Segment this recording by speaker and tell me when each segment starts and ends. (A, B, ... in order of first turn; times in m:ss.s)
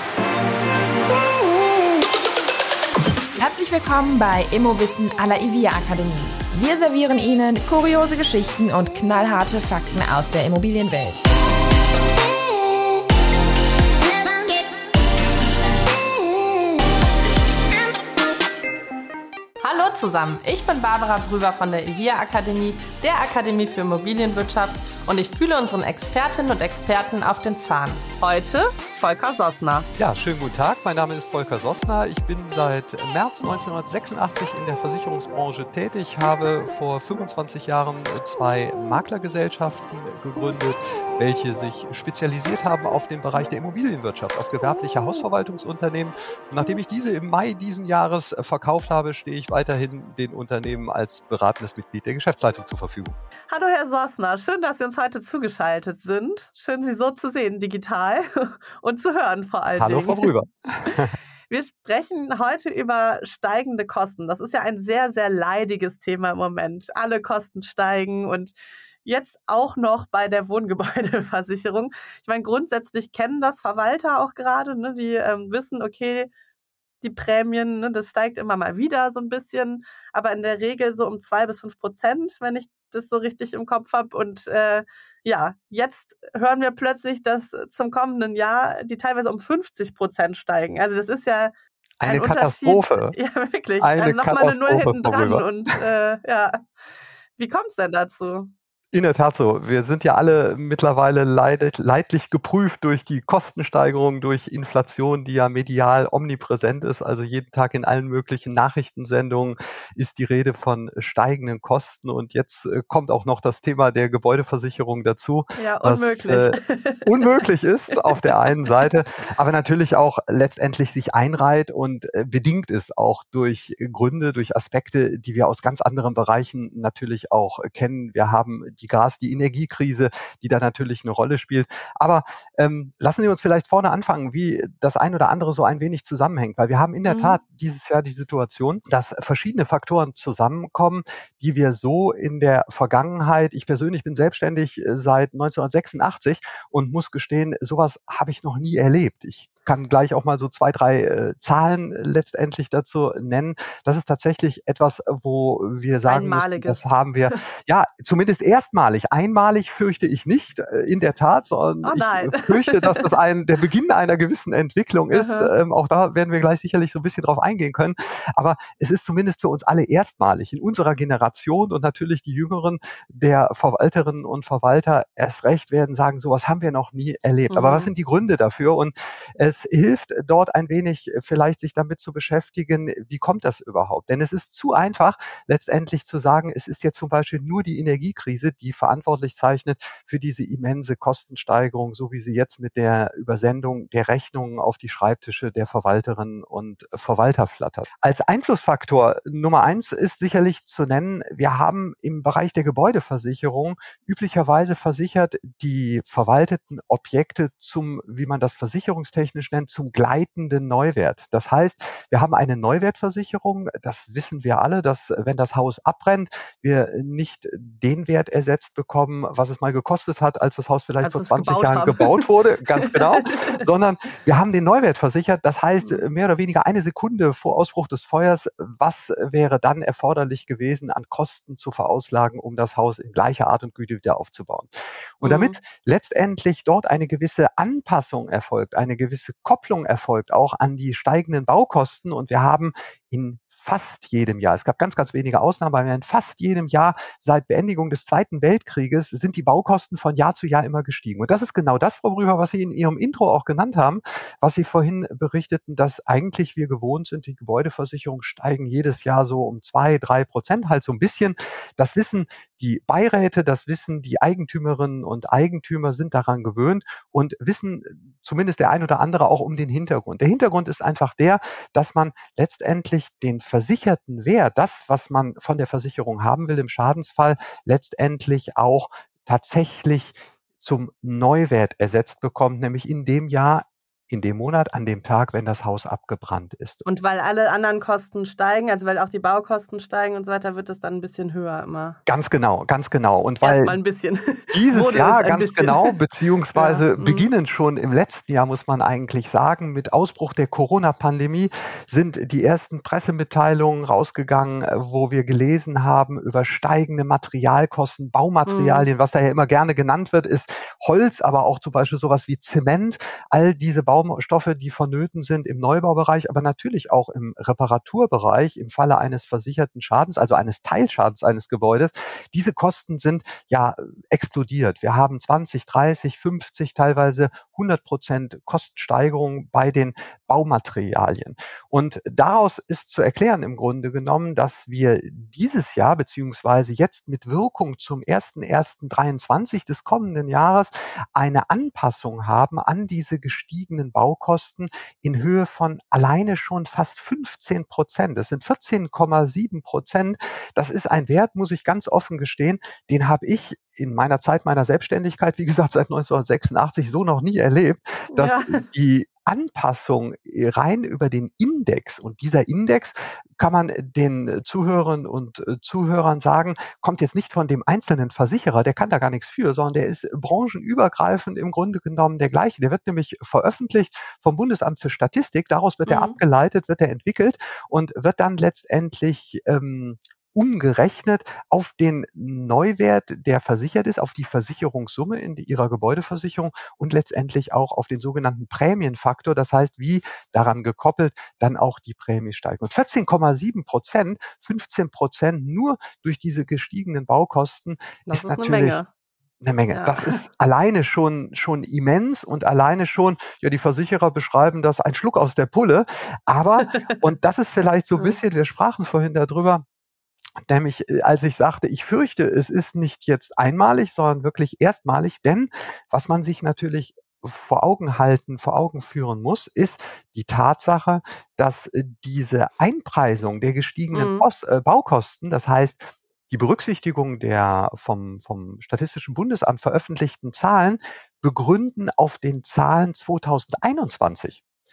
0:03.3-0:11.2 A
0:19.6-0:29.9 B
0:30.0-0:53.2 C
0:53.5-1:00.3 B
0:59.8-1:01.1 C
1:00.8-1:16.3 B
1:17.0-1:31.5 B
1:32.0-1:33.1 C
1:32.0-1:36.6 B
1:33.8-1:35.5 C
1:37.4-1:38.5 B
1:38.9-4:46.8 C
1:55.6-1:57.3 B
1:58.0-1:58.8 B
2:17.0-2:17.4 B
2:36.1-2:37.4 B
2:41.8-2:43.1 B
2:45.1-2:45.5 B
2:57.5-2:57.9 B
3:41.0-3:42.2 B
3:42.7-3:43.6 B
3:55.2-3:55.6 B
4:46.8-4:52.0 B
4:52.0-4:53.8 C
4:53.4-4:55.9 B
4:54.5-6:38.8 C
4:56.5-4:57.3 B
5:08.4-5:08.9 B
5:58.1-5:58.6 B
6:15.8-6:16.2 B
6:38.1-6:38.9 B
6:39.4-6:49.6 C
6:39.7-6:40.2 B
6:50.4-7:14.4 C
7:03.9-7:04.2 B